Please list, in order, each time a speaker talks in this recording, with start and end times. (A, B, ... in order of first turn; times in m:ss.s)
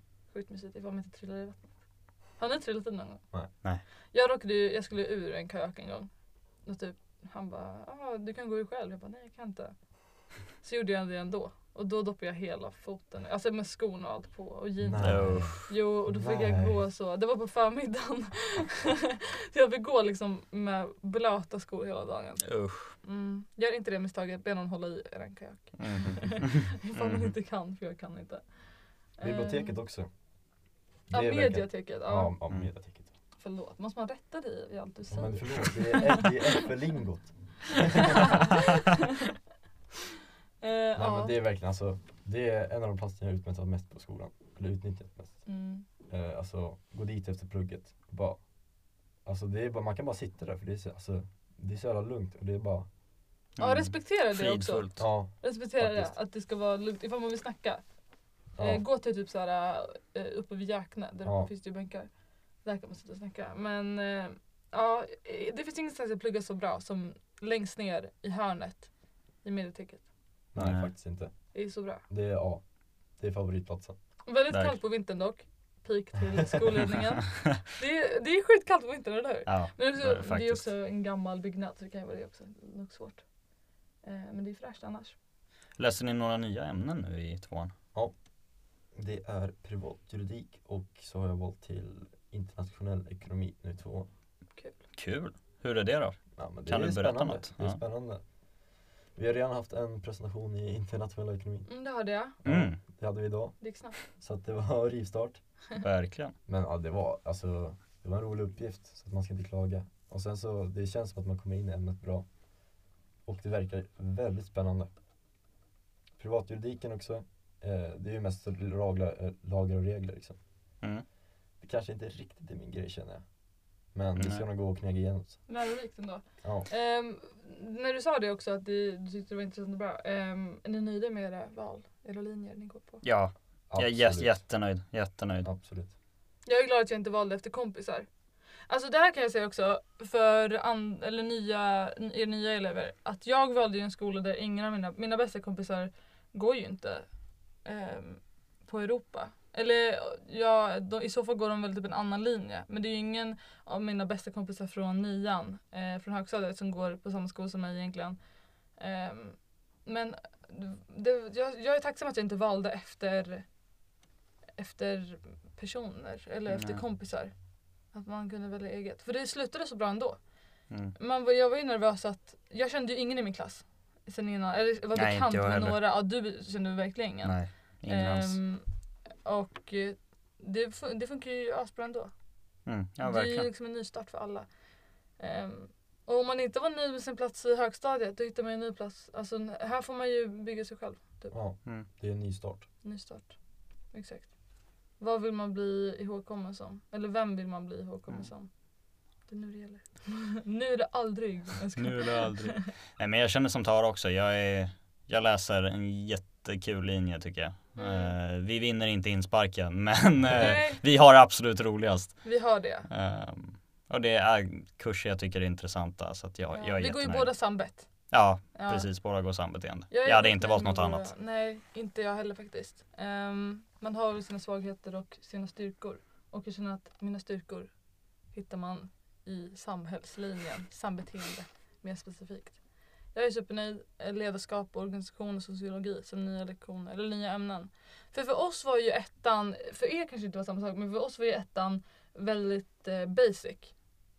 0:00.3-0:01.7 A
0:02.4-0:03.2 A
0:04.1-0:06.1 A
0:06.6-0:09.7 A
0:10.6-0:28.5 A
0:14.8-0:16.8 B
0:15.0-0:15.7 C
0:22.4-0:22.9 C
0:25.8-0:27.3 C
0:29.2-0:29.7 A
0:29.2-0:30.1 B
0:31.1-0:32.3 A
0:31.1-0:33.1 B
0:33.4-0:36.7 A
0:35.1-0:38.6 B
0:37.7-0:39.3 A
0:40.6-0:41.4 A
0:40.9-0:45.4 B
0:45.4-0:45.8 A
0:46.1-0:48.4 B
0:49.2-0:52.9 B
0:53.6-0:55.0 C
0:53.6-0:57.8 A
0:55.0-0:56.1 B
0:58.6-0:58.8 B
0:58.6-1:02.1 A
1:02.6-1:08.9 A
1:09.4-1:10.0 A
1:10.5-1:11.3 B
1:10.6-1:10.9 C
1:11.5-1:12.0 A
1:12.1-1:12.6 B
1:13.2-1:14.0 B
1:14.3-1:23.2 A
1:14.5-1:14.8 C
1:19.4-1:20.7 C
1:24.0-1:25.1 A
1:25.8-1:27.7 C
1:28.9-1:34.1 B
1:34.9-1:37.8 C
1:36.4-1:38.2 B
1:39.2-1:41.7 B
1:41.7-1:42.4 A
1:42.4-1:45.4 B
1:42.4-1:42.8 C
1:43.6-1:44.0 A
1:45.8-1:46.3 C
1:46.5-1:52.2 B
1:53.2-1:54.9 B
1:56.2-2:00.4 B
2:01.6-2:03.2 B
2:03.9-2:05.4 B
2:04.2-2:04.4 C
2:05.5-2:13.0 A
2:06.4-2:06.7 B
2:13.0-2:15.5 C
2:13.7-2:14.4 B
2:15.4-2:15.9 B
2:16.4-2:18.1 A
2:18.7-2:27.1 A
2:27.6-2:38.2 A
2:38.8-2:43.4 A
2:44.6-2:47.3 A
2:46.5-2:46.8 C
2:47.9-2:50.2 A
2:51.0-2:58.6 A
2:54.9-2:55.8 C
2:57.2-2:58.4 C
2:59.2-3:02.1 A
3:02.6-3:03.5 C
3:03.0-3:04.4 A
3:05.2-3:11.3 A
3:11.3-3:12.6 B
3:12.8-3:13.4 A
3:13.9-3:14.3 A
3:15.0-3:18.5 A
3:19.3-3:22.7 A
3:21.8-3:32.2 C
3:27.8-3:28.1 A
3:30.3-3:30.8 A
3:32.2-3:32.9 A
3:32.9-3:37.3 C
3:36.5-3:37.9 A
3:38.1-3:41.1 C
3:38.6-3:38.9 A
3:39.9-3:47.7 A
3:48.3-3:52.6 A
3:53.1-4:03.7 A